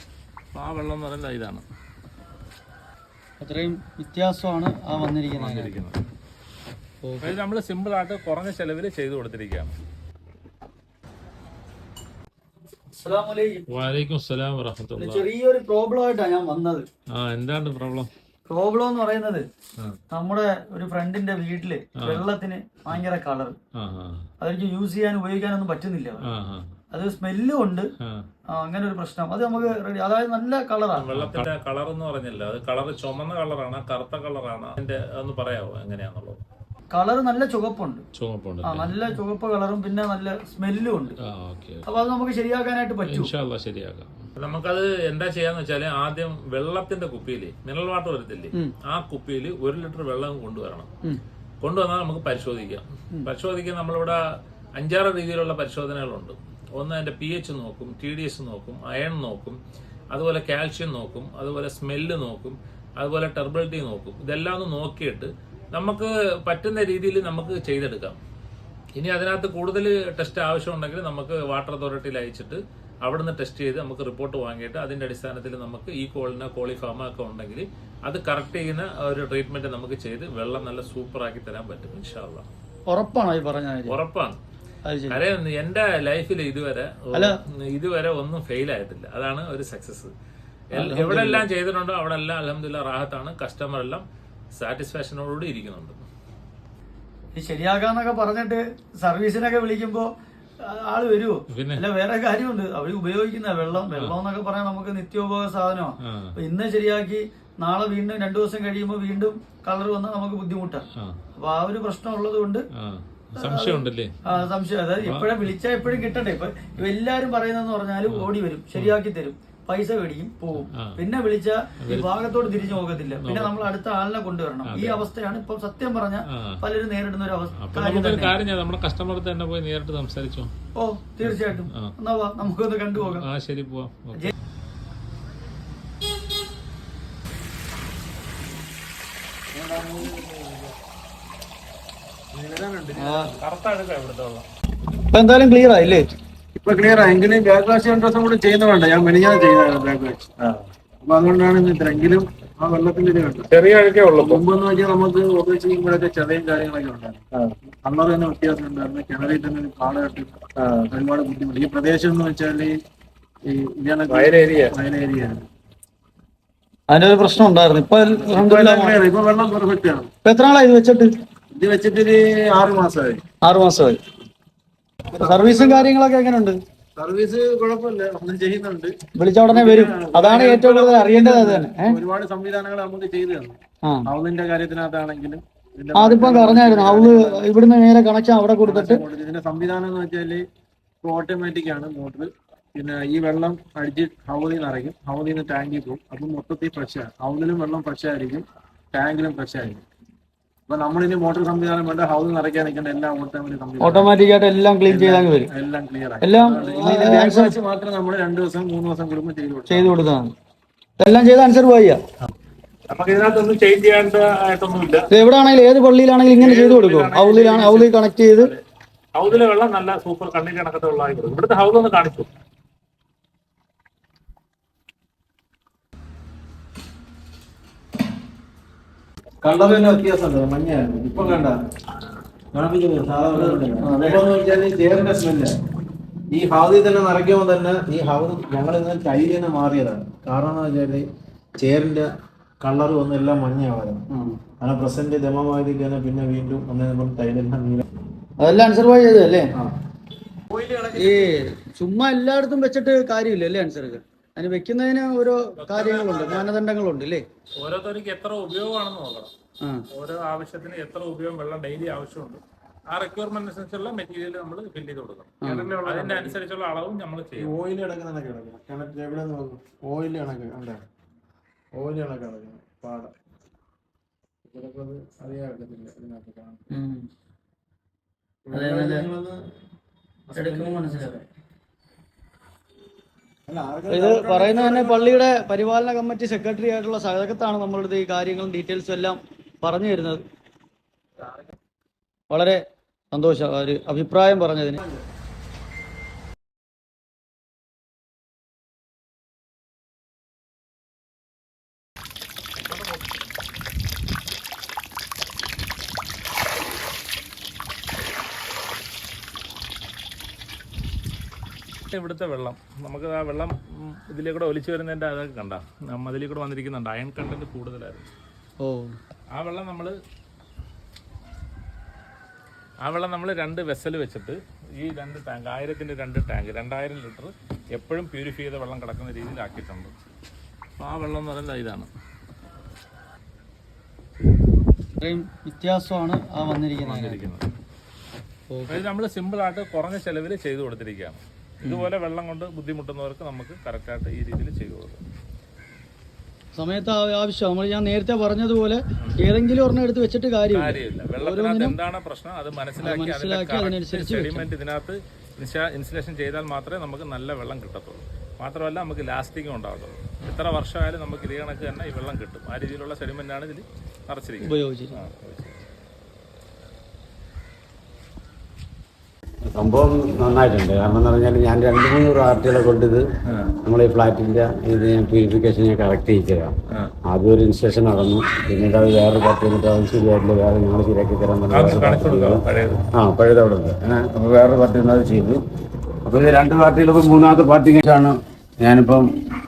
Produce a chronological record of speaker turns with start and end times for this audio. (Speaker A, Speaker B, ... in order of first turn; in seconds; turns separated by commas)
Speaker A: 0.5-1.6, Speaker B: 3.4-5.8, Speaker A: 5.3-6.0, Speaker B: 7.0-7.3, Speaker A: 7.2-9.7, Speaker B: 13.0-13.7, Speaker A: 13.7-15.2, Speaker B: 14.9-16.9, Speaker A: 17.1-18.1, Speaker B: 18.5-19.4, Speaker B: 20.1-23.5, Speaker A: 22.0-22.2, Speaker A: 23.8-24.2, Speaker B: 24.4-26.2, Speaker A: 26.2-26.7, Speaker B: 26.9-27.9, Speaker A: 28.0-28.2, Speaker B: 28.5-31.4, Speaker A: 31.0-36.4, Speaker B: 36.9-38.0, Speaker A: 38.1-39.0, Speaker B: 38.6-41.1, Speaker A: 41.3-41.8, Speaker B: 41.9-43.3, Speaker A: 43.1-50.9, Speaker A: 51.6-54.2, Speaker A: 54.8-59.6, Speaker A: 60.1-68.2, Speaker A: 68.9-82.5, Speaker B: 82.9-83.9, Speaker A: 83.9-84.4, Speaker B: 84.8-85.2, Speaker A: 85.1-90.1, Speaker A: 90.7-96.0, Speaker B: 90.7-91.5, Speaker B: 97.3-100.1, Speaker B: 100.6-110.8, Speaker A: 101.5-101.8, Speaker A: 106.0-106.3, Speaker B: 111.4-112.6, Speaker A: 112.7-114.4, Speaker B: 113.4-128.3, Speaker A: 115.0-115.4, Speaker A: 118.1-118.9, Speaker A: 120.7-121.0, Speaker A: 121.8-122.1, Speaker A: 123.1-123.7, Speaker A: 124.6-125.0, Speaker A: 126.3-126.6, Speaker A: 127.6-130.5, Speaker B: 130.8-133.2, Speaker A: 131.2-131.9, Speaker A: 132.9-134.3, Speaker C: 139.5-140.8, Speaker C: 142.3-143.3, Speaker B: 143.0-143.3, Speaker A: 143.4-144.5, Speaker B: 145.1-146.1, Speaker C: 146.6-150.3, Speaker A: 150.4-150.7, Speaker C: 151.0-153.5, Speaker A: 153.5-154.4, Speaker C: 154.2-157.2, Speaker C: 157.8-162.8, Speaker A: 160.6-160.9, Speaker C: 163.4-165.4, Speaker A: 164.1-164.8, Speaker B: 166.9-169.0, Speaker C: 168.1-170.1, Speaker B: 170.2-171.1, Speaker C: 171.5-173.2, Speaker B: 173.4-174.0, Speaker C: 175.1-175.9, Speaker B: 175.2-176.6, Speaker C: 176.9-178.9, Speaker B: 179.2-182.0, Speaker C: 179.5-187.4, Speaker B: 185.9-189.0, Speaker C: 188.6-190.4, Speaker C: 191.0-199.8, Speaker C: 200.7-204.1, Speaker B: 203.8-205.5, Speaker C: 204.9-210.0, Speaker B: 206.2-207.6, Speaker B: 209.7-210.3, Speaker B: 211.0-212.0, Speaker A: 212.9-215.1, Speaker B: 215.1-218.5, Speaker A: 216.4-218.6, Speaker A: 219.2-222.3, Speaker C: 229.4-231.6, Speaker C: 232.5-235.6, Speaker B: 233.4-234.2, Speaker C: 236.3-242.1, Speaker C: 242.6-244.1, Speaker B: 244.1-244.3, Speaker C: 244.6-247.8, Speaker B: 248.4-249.5, Speaker C: 250.5-251.3, Speaker B: 250.9-257.2, Speaker A: 255.6-256.5, Speaker A: 257.6-259.3, Speaker A: 259.9-267.6, Speaker B: 265.4-265.8, Speaker C: 265.5-266.4, Speaker C: 267.4-270.8, Speaker C: 271.7-273.1, Speaker C: 274.4-276.7, Speaker B: 276.7-277.0, Speaker C: 278.4-279.5, Speaker B: 278.5-279.1, Speaker C: 280.3-280.9, Speaker B: 280.3-281.2, Speaker C: 283.5-285.2, Speaker B: 283.9-290.2, Speaker B: 292.3-292.6, Speaker B: 293.1-294.8, Speaker A: 302.6-303.3, Speaker A: 311.9-318.1, Speaker B: 318.6-319.0, Speaker A: 319.3-319.9, Speaker A: 322.8-329.9, Speaker A: 330.8-331.9, Speaker B: 335.0-337.2, Speaker A: 336.4-337.4, Speaker B: 338.5-338.8, Speaker A: 338.7-345.0, Speaker B: 346.5-351.8, Speaker A: 350.5-365.6, Speaker B: 352.8-354.5, Speaker B: 364.4-365.0, Speaker D: 369.5-373.1, Speaker D: 373.6-376.5, Speaker D: 377.1-382.4, Speaker A: 381.5-382.8, Speaker D: 382.9-385.4, Speaker D: 386.0-389.1